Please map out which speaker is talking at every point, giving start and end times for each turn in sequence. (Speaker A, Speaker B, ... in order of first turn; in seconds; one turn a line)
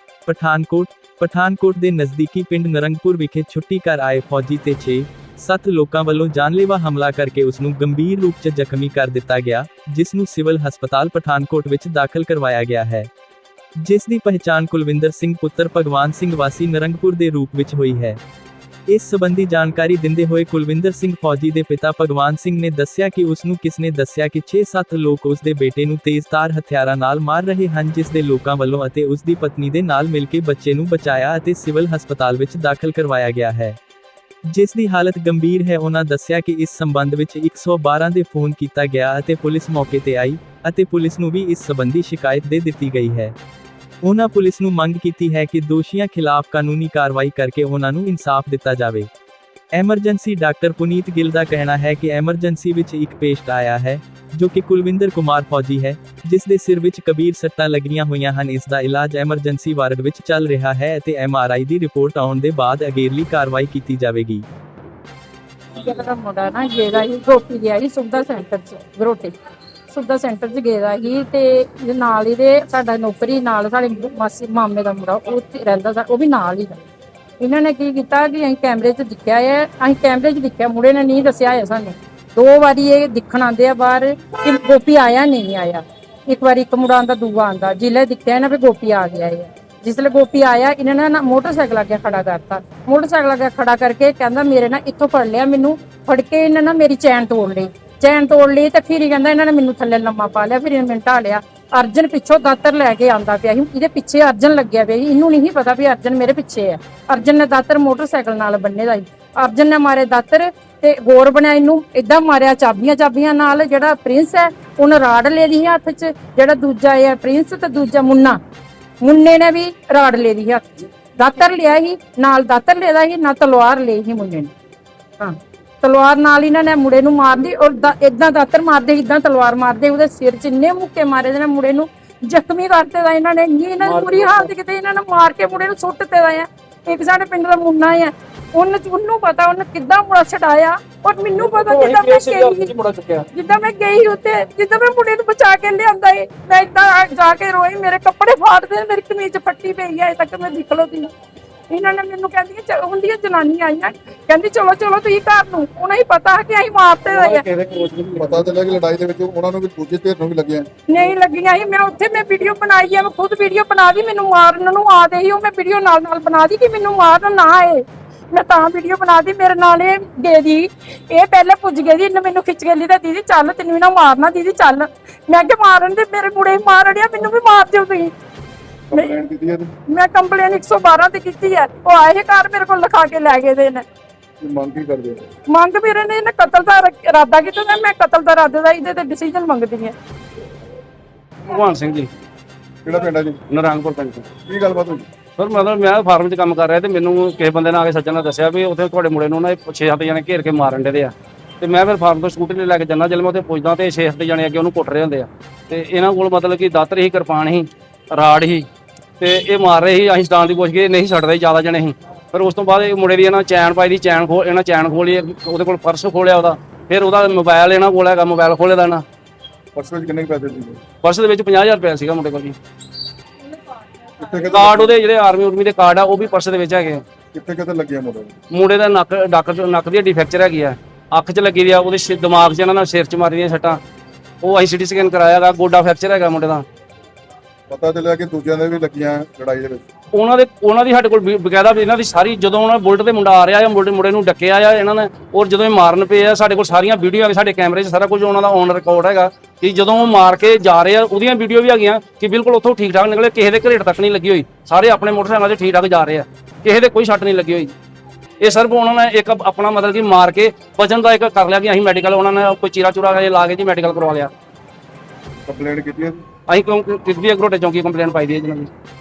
Speaker A: 0.3-13.1
Speaker A: 13.8-18.2
Speaker A: 18.9-33.8
Speaker A: 34.5-43.4
Speaker A: 44.0-49.1
Speaker A: 49.7-64.5
Speaker B: 65.8-69.3
Speaker B: 69.9-76.8
Speaker B: 77.4-118.4
Speaker B: 119.0-124.5
Speaker B: 125.2-142.7
Speaker C: 133.8-134.5
Speaker C: 141.3-143.3
Speaker B: 143.3-151.1
Speaker B: 151.7-157.4
Speaker C: 157.1-158.5
Speaker D: 158.2-160.7
Speaker B: 160.9-178.1
Speaker D: 178.9-179.7
Speaker B: 179.9-183.8
Speaker D: 184.4-185.2
Speaker B: 185.5-189.9
Speaker C: 191.4-192.1
Speaker D: 192.8-193.4
Speaker C: 193.5-194.3
Speaker D: 194.5-195.1
Speaker C: 195.4-208.7
Speaker C: 209.2-219.0
Speaker D: 219.8-220.8
Speaker C: 221.0-222.6
Speaker D: 224.2-225.0
Speaker C: 224.4-227.0
Speaker D: 227.3-228.3
Speaker C: 228.5-233.8
Speaker C: 234.4-236.7
Speaker D: 237.7-239.8
Speaker C: 240.1-257.7
Speaker C: 258.4-264.3
Speaker D: 265.5-266.2
Speaker C: 266.5-268.7